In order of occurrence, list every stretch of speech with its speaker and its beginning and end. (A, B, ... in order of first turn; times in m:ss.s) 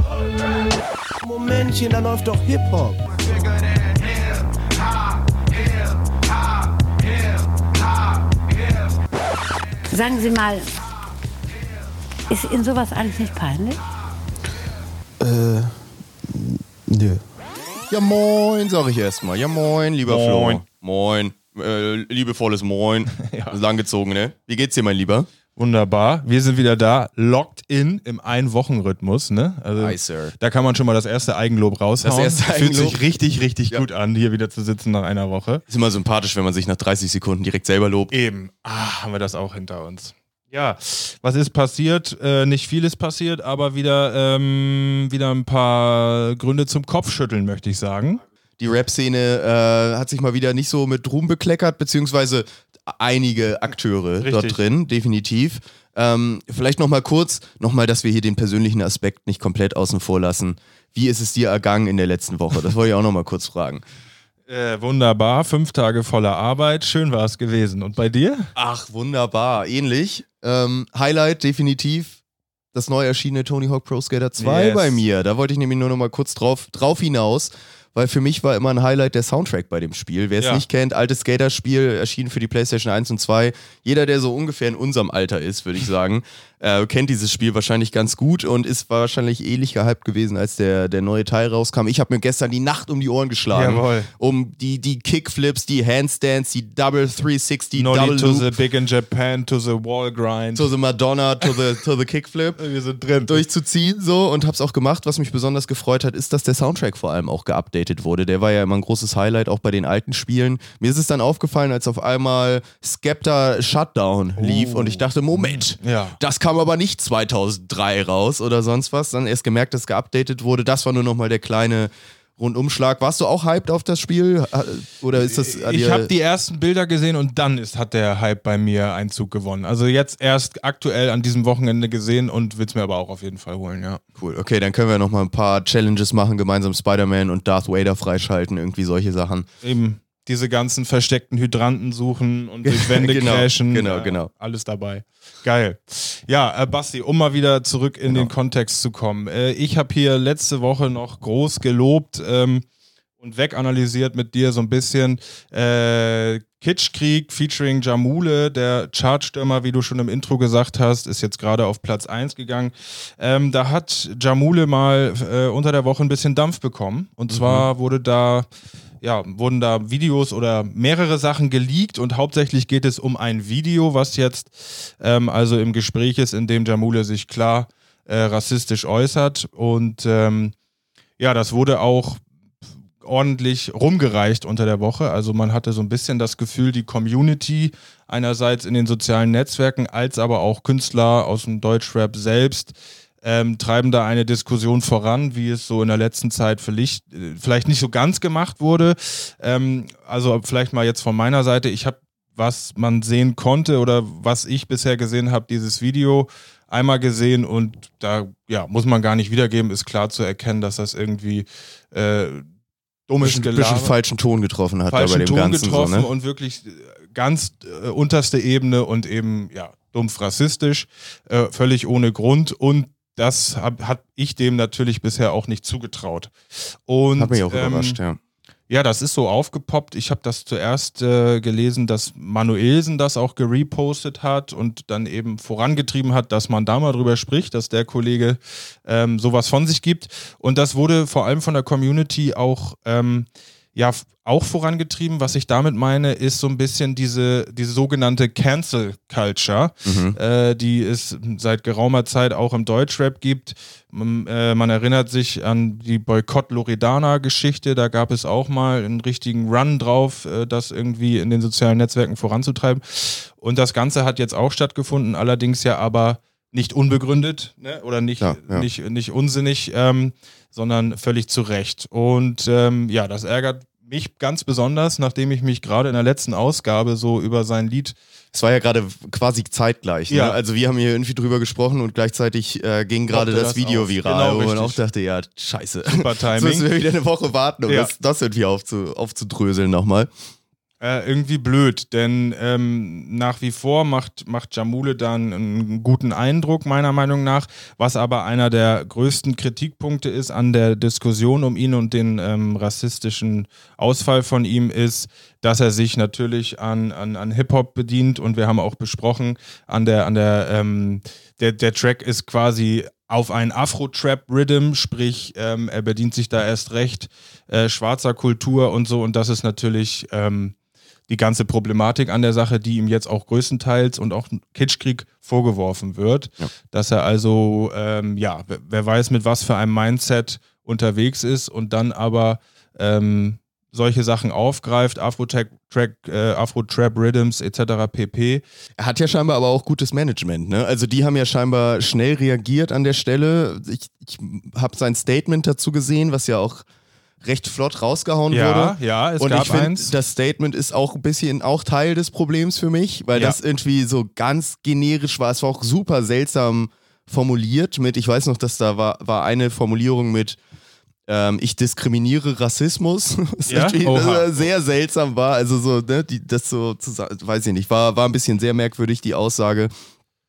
0:01.2-0:03.6 A
0:09.9-0:10.7 B
0:12.3-0:13.8 B
0:15.2-0:17.2 A
0:17.9-0:25.3 C
0:20.1-0:20.6 D
0:23.1-0:23.6 D
0:25.6-0:35.6 D
0:29.8-0:30.3 C
0:32.0-0:33.0 C
0:35.7-0:38.1 C
0:38.1-0:48.2 D
0:48.6-1:03.8 C
0:54.2-0:54.6 D
1:04.5-1:08.5 D
1:08.6-1:12.2 C
1:12.7-1:38.5 C
1:14.4-1:15.0 D
1:20.4-1:20.6 D
1:33.5-1:34.1 D
1:37.8-1:40.7 D
1:40.6-1:42.6 C
1:42.6-1:43.4 D
1:43.3-2:06.1 C
1:54.4-1:56.2 D
2:05.2-2:14.0 D
2:14.2-2:19.5 C
2:19.6-2:32.6 D
2:22.6-2:24.3 C
2:33.2-2:48.5 D
2:47.3-2:47.7 C
2:49.0-3:00.5 D
3:01.2-3:02.2 D
3:03.0-3:32.5 D
3:33.1-3:33.9 D
3:33.2-3:36.1 C
3:34.9-3:48.0 D
3:47.2-3:48.2 C
3:48.7-4:38.0 D
4:09.8-4:10.2 C
4:28.2-4:28.7 C
4:38.3-4:50.1 C
4:40.1-4:40.4 D
4:43.1-4:44.8 D
4:45.9-4:46.7 D
4:47.7-4:47.9 D
4:50.8-5:20.6 D
5:21.1-5:38.4 D
5:38.8-5:46.6 C
5:47.2-6:00.4 C
5:48.3-5:49.9 D
6:01.1-6:09.7 C
6:03.5-6:04.5 D